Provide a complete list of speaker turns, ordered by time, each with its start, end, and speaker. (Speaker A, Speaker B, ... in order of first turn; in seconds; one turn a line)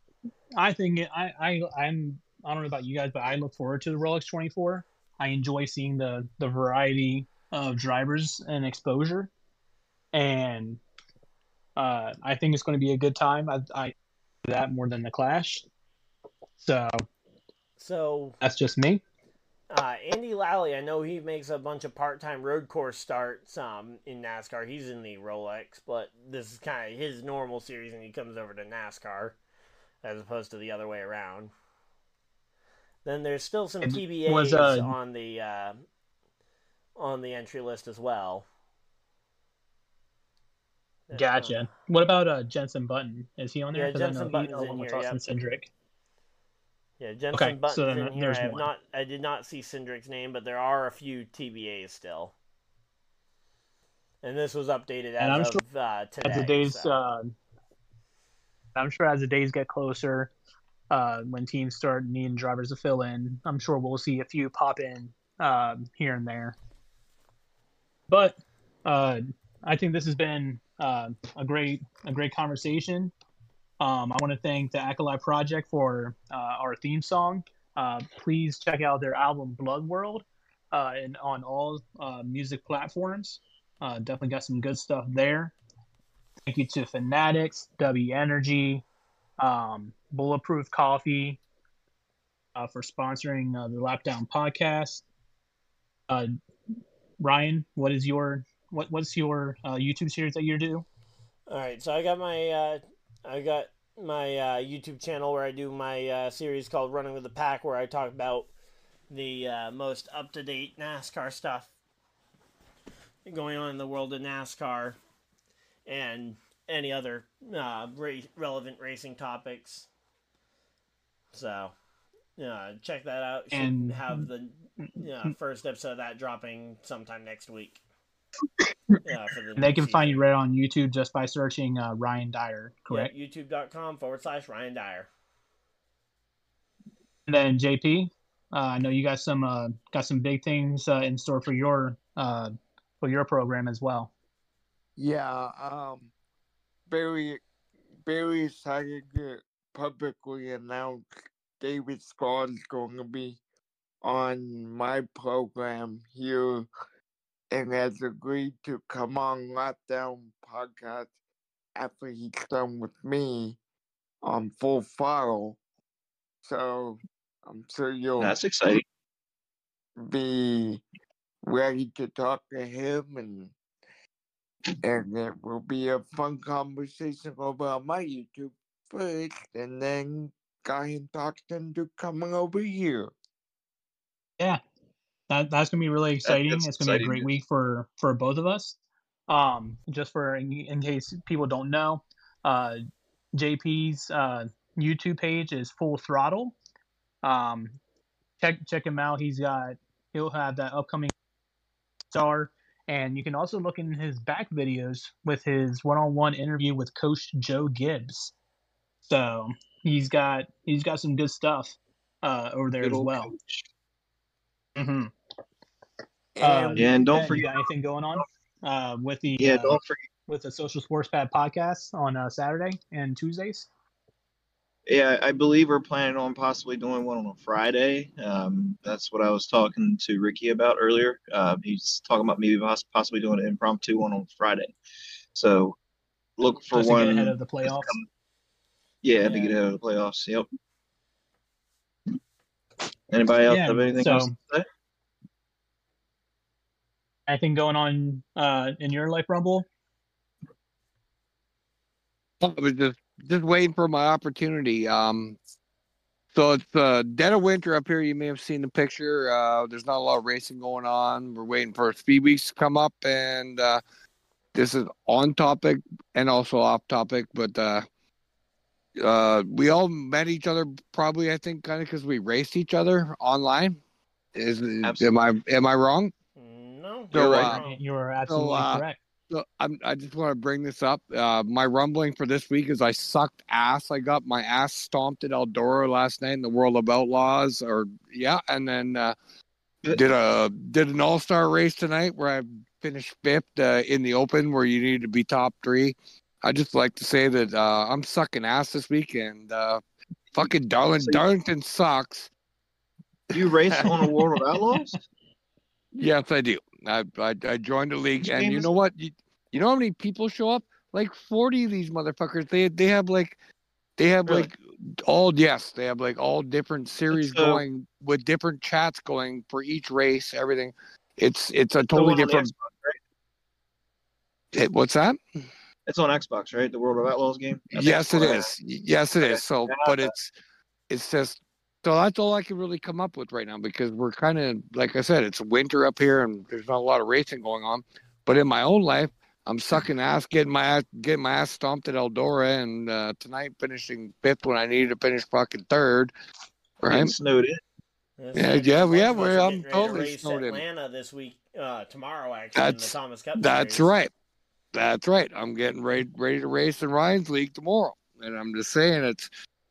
Speaker A: 0.6-9.3
Speaker A: 10.1-10.8
Speaker A: 11.8-15.7
Speaker A: 16.6-17.0
Speaker B: 17.8-18.4
Speaker A: 18.4-19.0
Speaker B: 19.7-29.4
Speaker B: 30.0-31.5
Speaker B: 33.0-35.8
Speaker A: 33.8-34.9
Speaker B: 37.0-38.5
Speaker B: 41.1-41.7
Speaker A: 41.1-45.7
Speaker B: 43.7-45.2
Speaker B: 47.0-52.3
Speaker A: 47.3-48.6
Speaker B: 54.2-57.0
Speaker A: 55.2-55.6
Speaker A: 56.2-57.4
Speaker A: 58.7-60.3
Speaker A: 60.9-66.5
Speaker A: 68.1-73.1
Speaker A: 73.8-85.5
Speaker A: 86.5-88.8
Speaker A: 89.4-91.4
Speaker A: 92.5-95.0
Speaker A: 97.2-100.8
Speaker B: 101.5-108.5
Speaker B: 109.1-111.7
Speaker B: 113.2-115.0
Speaker B: 115.8-119.9
Speaker B: 121.3-121.7
Speaker B: 122.4-127.8
Speaker A: 123.5-124.3
Speaker B: 129.0-130.2
Speaker A: 129.6-133.1
Speaker B: 132.9-135.1
Speaker A: 137.3-144.1
Speaker C: 145.0-146.1
Speaker C: 146.9-147.4
Speaker C: 148.1-153.4
Speaker C: 154.0-156.7
Speaker C: 157.5-161.1
Speaker C: 161.8-163.6
Speaker C: 164.2-165.6
Speaker C: 166.4-168.4
Speaker D: 168.2-168.8
Speaker C: 170.0-170.8
Speaker C: 171.4-173.5
Speaker C: 174.8-183.1
Speaker A: 185.3-188.8
Speaker D: 186.2-187.3
Speaker A: 189.3-192.8
Speaker A: 193.3-196.6
Speaker A: 197.2-197.8
Speaker A: 198.4-201.1
Speaker A: 202.1-208.3
Speaker A: 209.0-213.3
Speaker D: 212.8-213.6
Speaker A: 214.8-215.1
Speaker C: 216.3-217.2
Speaker A: 216.4-223.7
Speaker D: 216.7-217.6
Speaker D: 219.4-220.0
Speaker D: 224.9-234.7
Speaker D: 235.3-235.8
Speaker D: 236.4-238.1
Speaker A: 236.7-237.9
Speaker D: 239.0-240.4
Speaker A: 239.2-239.5
Speaker D: 243.1-244.6
Speaker A: 243.5-244.3
Speaker A: 247.3-249.7
Speaker E: 252.4-255.4
Speaker E: 256.3-263.8
Speaker E: 264.5-267.8
Speaker E: 268.9-273.8
Speaker E: 274.3-276.1
Speaker D: 274.8-275.1
Speaker B: 276.4-277.8
Speaker E: 277.1-277.6
Speaker A: 277.1-279.0
Speaker E: 278.3-289.1
Speaker E: 289.9-299.8
Speaker E: 300.3-302.3
Speaker E: 303.3-304.1
Speaker D: 303.3-305.0
Speaker E: 305.9-313.4
Speaker D: 308.2-308.7
Speaker E: 314.0-322.5
Speaker D: 317.1-317.6
Speaker D: 321.8-323.0
Speaker E: 324.5-325.2
Speaker D: 325.9-328.5
Speaker E: 327.7-330.3
Speaker D: 329.2-330.1
Speaker E: 330.9-346.1
Speaker E: 346.8-347.1
Speaker D: 346.8-347.6
Speaker B: 348.2-353.9
Speaker E: 348.3-350.6
Speaker E: 352.6-354.1
Speaker E: 354.7-359.3